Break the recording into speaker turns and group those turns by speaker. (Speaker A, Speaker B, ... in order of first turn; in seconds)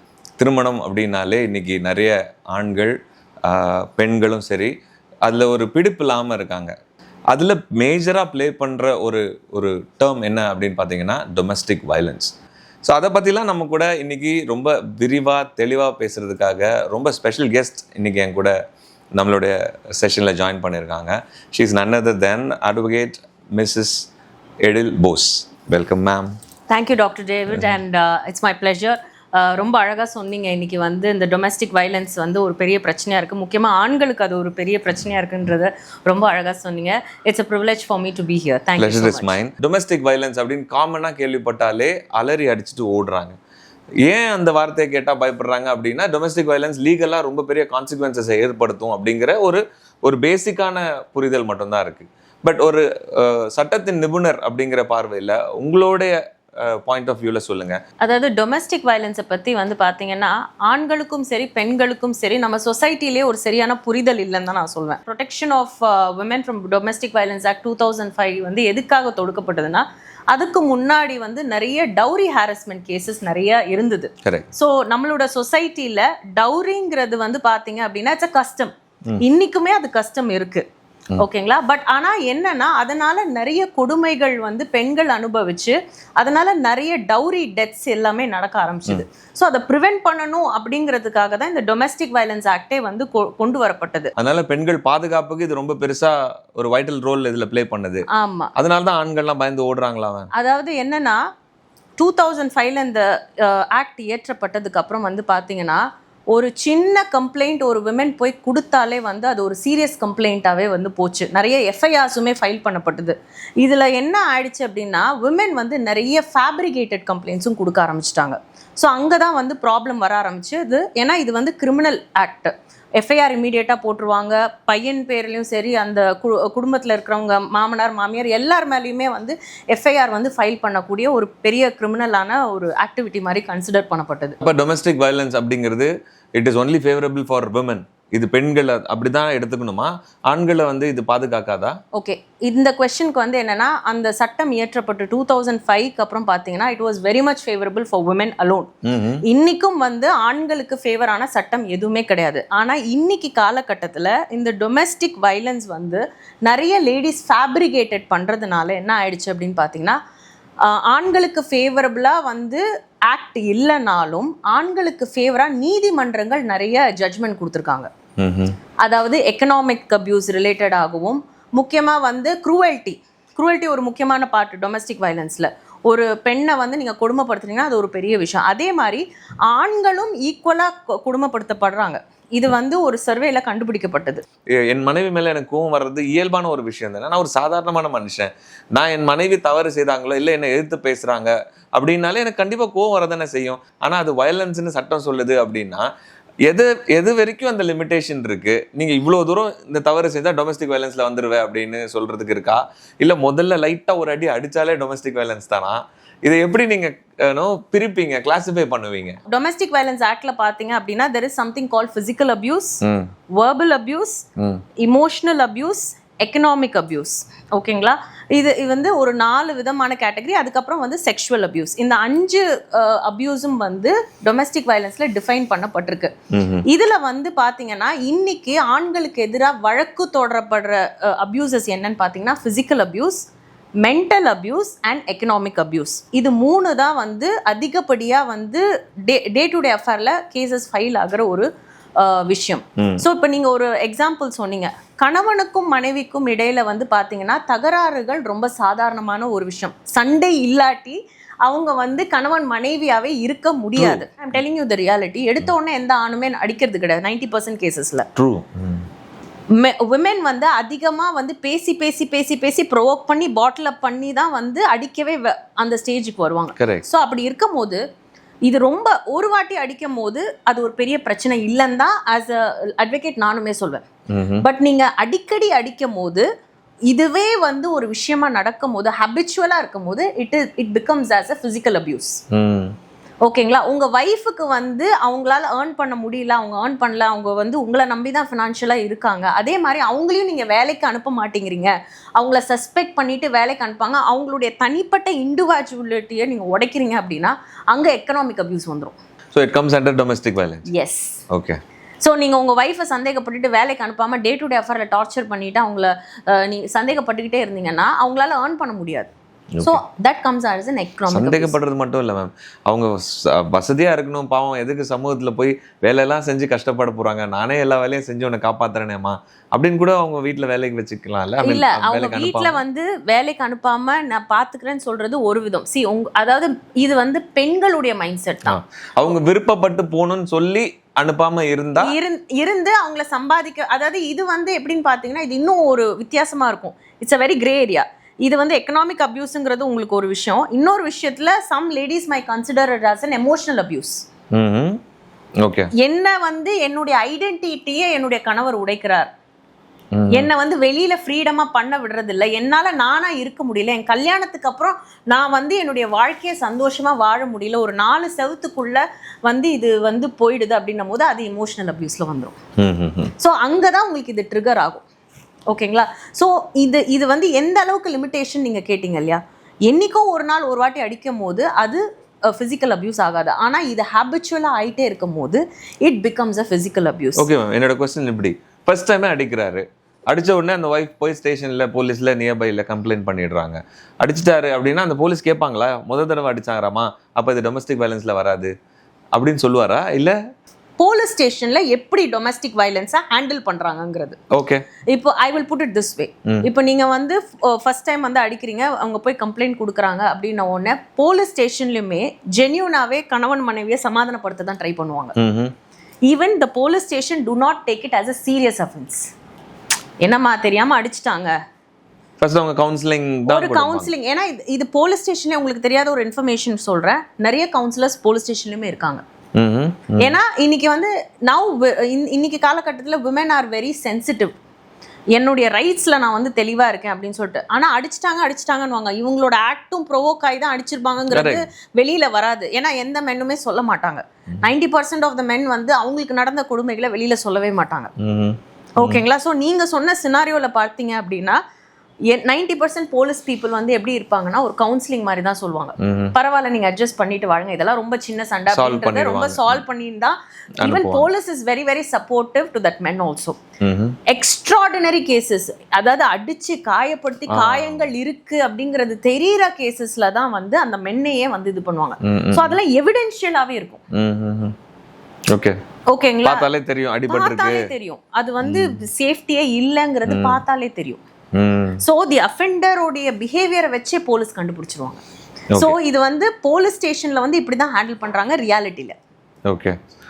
Speaker A: 0.4-4.7, 5.2-6.7, 7.3-12.3, 12.8-18.5, 19.2-24.1, 24.6-26.3, 38.8-43.3, 44.0-57.8, 94.2-100.3, 134.4-141.7, 148.8-149.2, 168.2-168.5, 184.5-195.8, 196.5-209.2, 212.8-213.1, 214.4-214.6, 226.3-226.6, 242.8-243.0, 253.8-254.0, 258.1-258.9, 266.6-266.8, 274.1-274.4, 282.3-282.7, 299.3-300.6, 301.3-301.6, 309.5-309.8, 311.1-322.6, 328.4-331.9, 344.3-344.8, 345.4-345.7, 349.9-350.3, 362.6-363.1, 377.2-388.5, 389.1-390.1, 394.3-394.6, 405.2-405.5, 412.2-413.9, 419.4-420.2, 431.1-431.4, 438.0-439.0, 445.8-446.1, 448.5-449.6, 450.6-451.1, 453.6-454.0, 457.3-457.9, 462.0-462.6, 463.9-464.5, 466.2-467.7, 468.4-468.8, 470.1-470.4, 471.3-471.8, 479.5-479.7
Speaker B: 26.7-39.4, 58.0-80.6, 81.2-94.1, 98.1-98.5, 100.3-101.2, 102.0-134.3, 141.9-148.7, 149.2-160.0, 160.6-167.9, 168.8-184.2, 209.3-212.8, 213.3-214.2, 214.8-226.1, 226.7-233.2, 233.8-241.5, 242.0-258.1, 259.5-267.8, 268.4-273.8, 274.4-276.2, 276.9-282.2, 283.2-299.0, 300.7-301.2, 302.0-309.1, 309.6-311.6, 321.4-328.6, 331.8-344.0, 345.8-349.1, 350.1-362.3, 363.2-364.9, 365.5-377.3, 390.8-394.2, 394.9-405.1, 406.1-409.0, 410.0-411.3, 413.3-419.0, 420.0-424.3, 425.1-437.9, 438.8-441.4, 442.1-453.4, 454.1-463.8, 465.9-466.5, 467.1-471.0, 471.8-475.0, 475.5-478.9